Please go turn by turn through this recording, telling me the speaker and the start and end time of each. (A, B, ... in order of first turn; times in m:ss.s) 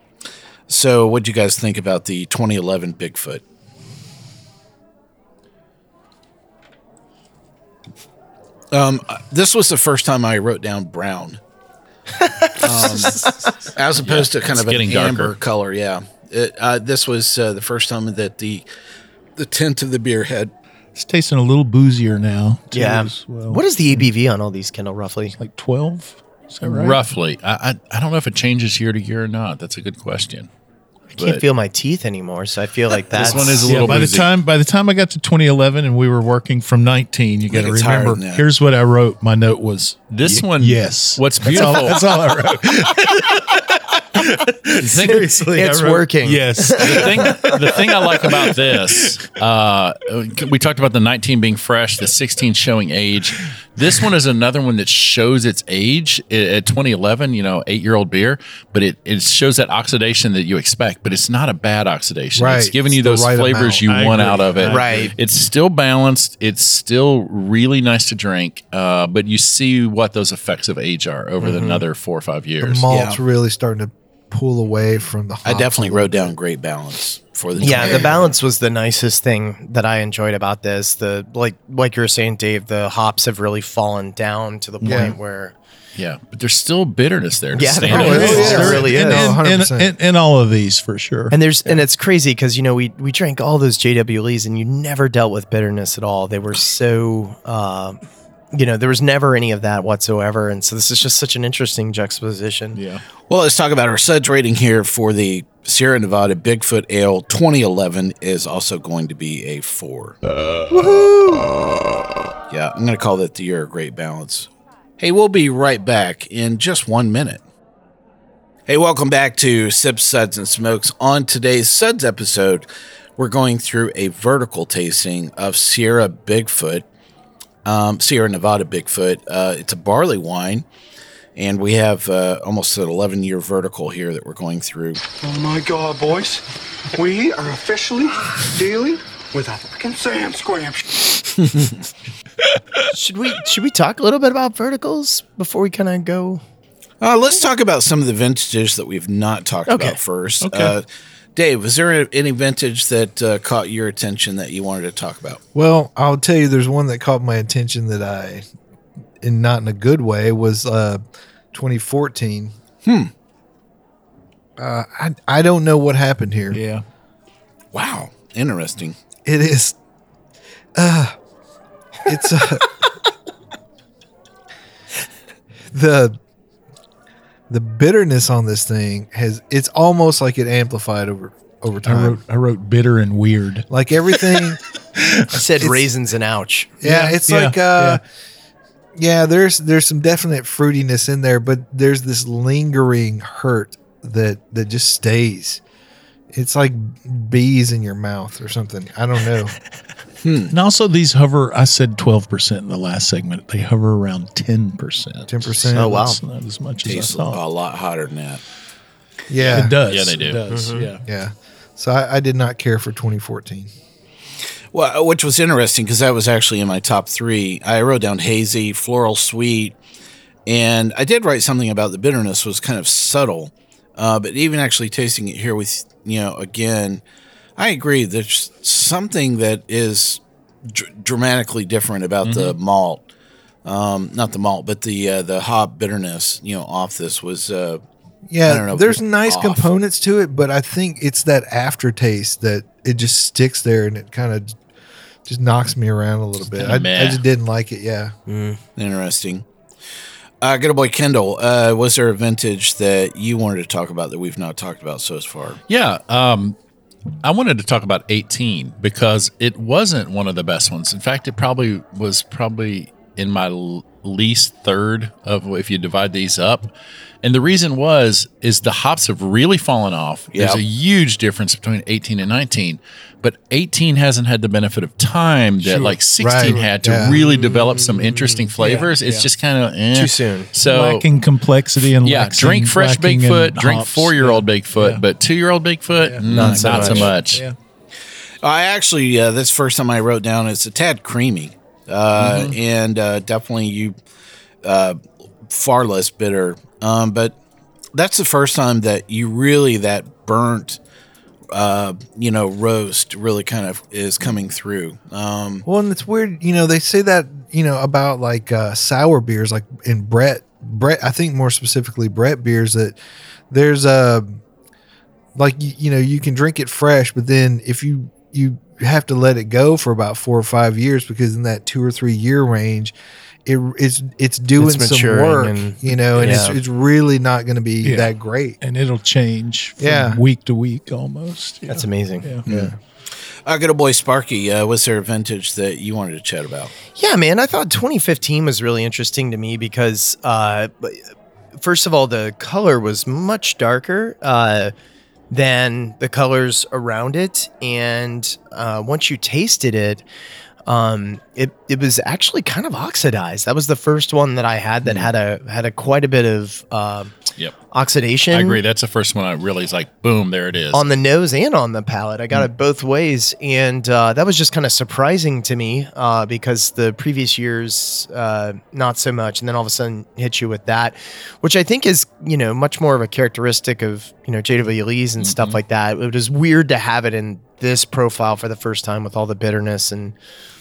0:00.7-0:03.4 A
0:08.7-0:11.4 A
0:12.2-0:13.5 B
0:12.6-0:18.6 A
0:14.0-0:15.4 C
0:19.4-0:20.5 A
0:21.0-0:24.1 D
0:22.7-0:25.4 B
0:25.4-0:27.0 D
0:26.6-0:30.5 C
0:31.2-0:31.4 C
0:31.2-0:33.9 B
0:33.1-0:34.3 C
0:33.2-0:49.3 D
0:37.5-0:38.4 A
0:40.1-0:42.1 C
0:44.8-0:45.3 C
0:45.1-0:47.4 B
0:46.8-1:12.8 C
1:02.4-1:04.4 E
1:03.9-1:05.1 D
1:04.7-1:05.1 B
1:11.4-1:11.8 B
1:12.6-1:16.3 E
1:12.9-1:13.2 A
1:15.4-1:18.3 A
1:17.6-1:25.6 B
1:17.7-1:18.2 E
1:24.8-1:25.1 D
1:24.8-1:25.2 E
1:26.0-1:28.8 C
1:27.5-1:29.4 B
1:27.8-1:29.9 E
1:27.8-1:31.8 D
1:31.3-1:38.0 B
1:38.5-1:42.8 B
1:42.7-1:43.0 D
1:43.3-1:50.2 A
1:50.7-1:51.5 E
1:52.5-1:54.5 A
1:55.0-1:57.4 A
1:58.7-2:02.7 A
2:03.2-2:06.8 A
2:07.6-2:10.6 A
2:11.4-2:15.0 A
2:15.1-2:16.4 F
2:16.9-2:21.3 F
2:22.9-2:26.4 B
2:27.0-2:30.8 A
2:29.7-2:30.0 B
2:30.4-2:30.7 D
2:31.4-2:35.4 A
2:35.5-2:38.4 E
2:39.2-2:41.0 E
2:41.5-2:42.5 E
2:42.8-2:43.1 A
2:44.6-2:46.6 E
2:46.5-2:46.8 D
2:47.7-2:49.0 A
2:49.2-2:49.8 E
2:50.8-2:51.2 E
2:52.0-2:52.7 E
2:55.7-2:56.2 E
2:57.5-3:02.2 E
3:01.9-3:03.7 D
3:03.7-3:04.6 E
3:05.0-3:05.2 D
3:05.3-3:06.8 B
3:06.8-3:08.0 E
3:06.8-3:08.0 D
3:09.0-3:15.6 E
3:16.3-3:19.6 E
3:20.2-3:20.5 A
3:20.5-3:27.4 D
3:25.3-3:26.0 E
3:25.7-3:26.2 B
3:26.8-3:28.4 A
3:29.3-3:29.8 E
3:29.4-3:31.0 D
3:29.6-3:30.4 C
3:30.5-3:30.8 B
3:31.1-3:33.7 E
3:34.7-3:39.8 A
3:40.5-3:47.0 A
3:47.6-3:53.0 A
3:52.2-3:52.6 C
3:53.6-3:57.8 A
3:58.3-4:04.6 E
3:58.4-3:59.7 A
4:05.3-4:08.1 E
4:06.6-4:07.2 C
4:08.3-4:08.6 B
4:08.8-4:09.5 A
4:10.4-4:15.6 A
4:15.7-4:16.6 C
4:17.2-4:26.7 C
4:27.2-4:41.1 C
4:30.3-4:30.6 A
4:35.6-4:36.6 D
4:36.2-4:37.2 E
4:37.2-4:38.4 B
4:38.6-4:39.3 D
4:39.9-4:40.5 B
4:40.6-4:45.0 D
4:42.0-4:47.4 C
4:46.0-4:47.6 D
4:46.3-4:47.2 A
4:46.3-4:47.1 B
4:48.4-4:54.0 A
4:52.2-4:52.6 C
4:54.6-4:57.4 A
4:58.0-5:00.8 A
5:01.5-5:05.6 A
5:05.6-5:13.0 E
5:13.5-5:14.4 E
5:15.4-5:23.0 E
5:23.5-5:28.6 E
5:24.6-5:26.6 B
5:27.8-5:32.4 D
5:29.8-5:30.2 E
5:31.7-5:32.3 B
5:32.5-5:32.7 A
5:32.5-5:32.8 E
5:33.4-5:36.7 A
5:37.0-5:41.0 B
5:41.6-5:44.7 B
5:45.3-5:50.0 B
5:50.7-5:57.1 B
5:57.7-5:58.6 B
5:58.3-6:00.9 C
6:00.7-6:20.2 B
6:15.2-6:15.6 C